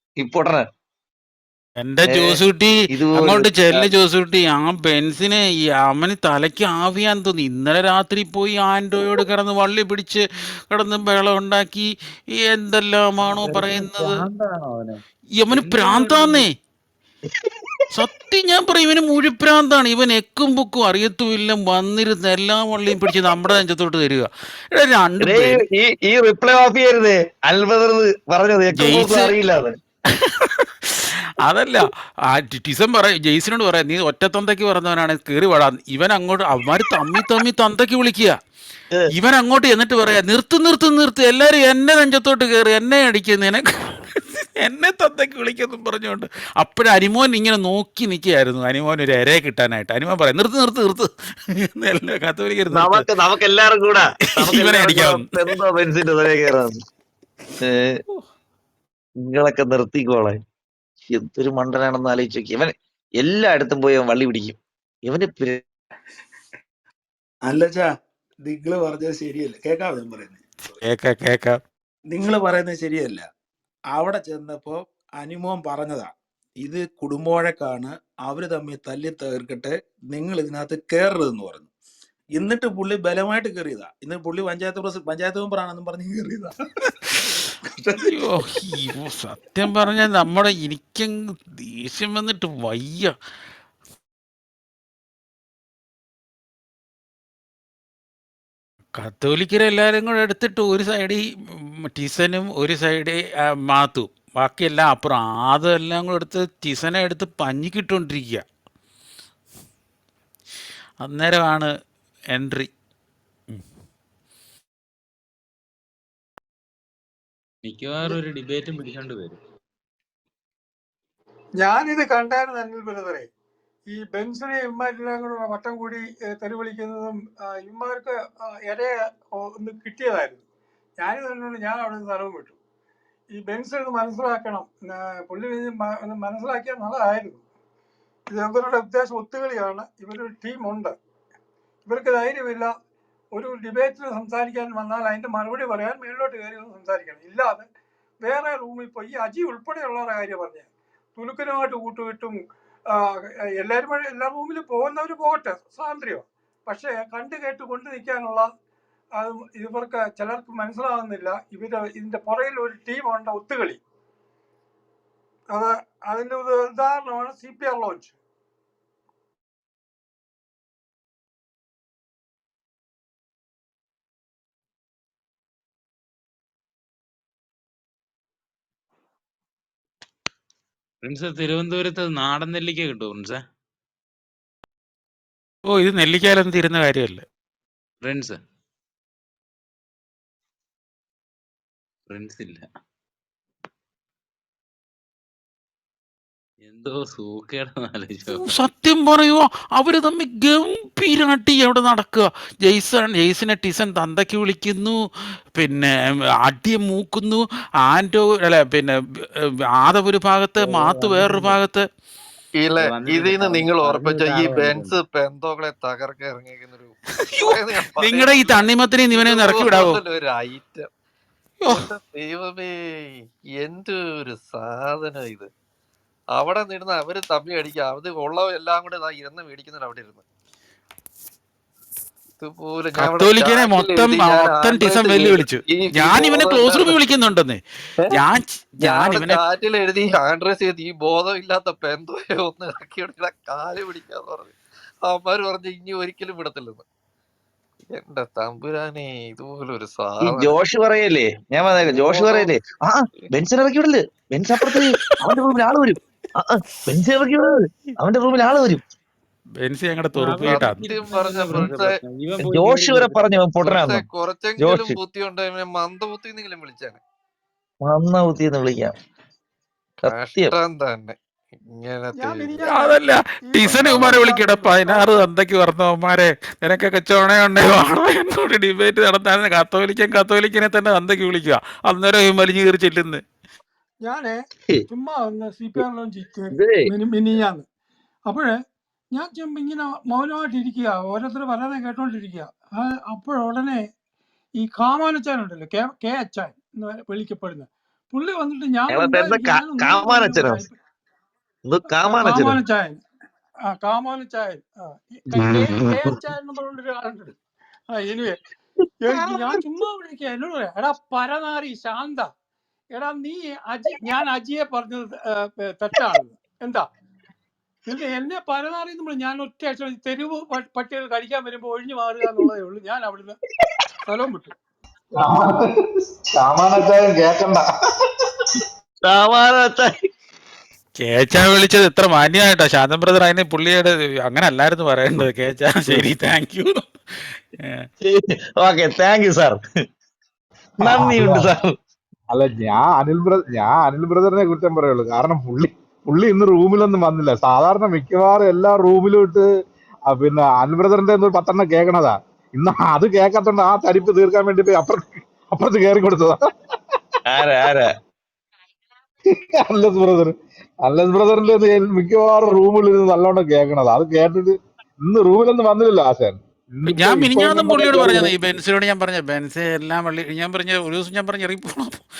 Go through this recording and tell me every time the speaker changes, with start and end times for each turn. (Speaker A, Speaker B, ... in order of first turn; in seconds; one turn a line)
Speaker A: 0.2-0.6
Speaker B: 1.8-11.9
Speaker A: 2.1-2.4
Speaker A: 2.9-3.9
Speaker B: 12.4-14.2
Speaker C: 13.3-16.4
Speaker B: 15.4-16.5
Speaker B: 17.9-25.6
Speaker A: 25.2-29.7
Speaker B: 28.7-29.4
Speaker B: 30.1-38.4
Speaker B: 39.1-53.0
Speaker A: 52.7-56.7
Speaker B: 54.4-55.3
Speaker A: 57.6-57.9
Speaker A: 59.2-60.4
Speaker A: 61.1-65.6
Speaker D: 67.4-67.9
Speaker D: 68.4-70.4
Speaker B: 70.7-71.6
Speaker D: 72.1-73.3
Speaker D: 73.9-81.7
Speaker D: 82.3-86.5
Speaker D: 87.7-88.3
Speaker B: 88.1-93.1
Speaker B: 99.0-108.4
Speaker B: 111.0-111.7
Speaker B: 112.3-112.7
Speaker C: 117.6-119.4
Speaker E: 121.6-123.3
Speaker E: 123.9-130.4
Speaker E: 131.0-132.6
Speaker E: 133.3-137.4
Speaker E: 138.3-140.9
Speaker E: 141.8-142.7
Speaker E: 143.3-147.7
Speaker E: 148.2-158.5
Speaker E: 159.2-163.8
Speaker E: 165.5-168.1
Speaker C: 181.0-183.4
Speaker B: 185.7-187.2
Speaker C: 188.0-188.4
Speaker C: 192.1-192.7
Speaker C: 196.6-198.4
Speaker B: 198.3-205.0
Speaker B: 205.6-205.9
Speaker B: 206.4-211.8
Speaker C: 210.6-211.6
Speaker F: 212.6-220.9
Speaker C: 212.8-215.0
Speaker B: 217.3-220.0
Speaker F: 221.7-225.5
Speaker F: 226.3-230.2
Speaker F: 232.4-237.0
Speaker B: 232.9-239.4
Speaker F: 238.8-246.8
Speaker F: 247.9-250.6
Speaker A: 250.2-258.8
Speaker F: 251.9-252.5
Speaker B: 259.6-260.9
Speaker C: 260.1-263.4
Speaker F: 260.4-262.0
Speaker A: 262.4-264.0
Speaker F: 263.5-267.0
Speaker A: 264.6-265.0
Speaker A: 267.8-268.9
Speaker F: 270.0-272.7
Speaker A: 270.0-270.5
Speaker E: 272.2-275.2
Speaker B: 272.6-283.2
Speaker E: 284.0-284.4
Speaker E: 284.9-287.6
Speaker A: 286.5-286.9
Speaker E: 288.2-288.6
Speaker E: 289.1-293.8
Speaker E: 294.6-300.7
Speaker A: 298.9-300.6
Speaker A: 301.6-302.6
Speaker E: 302.0-303.0
Speaker E: 303.7-307.3
Speaker A: 305.4-306.1
Speaker E: 307.9-308.4
Speaker E: 309.0-312.3
Speaker A: 309.1-309.6
Speaker E: 312.9-316.9
Speaker E: 317.9-323.4
Speaker E: 324.1-324.5
Speaker G: 325.2-325.7
Speaker G: 326.3-327.6
Speaker A: 329.1-329.9
Speaker B: 330.9-337.8
Speaker A: 338.0-339.6
Speaker A: 340.8-341.7
Speaker G: 340.8-341.5
Speaker G: 342.3-349.4
Speaker G: 350.1-356.4
Speaker A: 357.3-357.9
Speaker G: 359.4-368.3
Speaker B: 366.8-372.0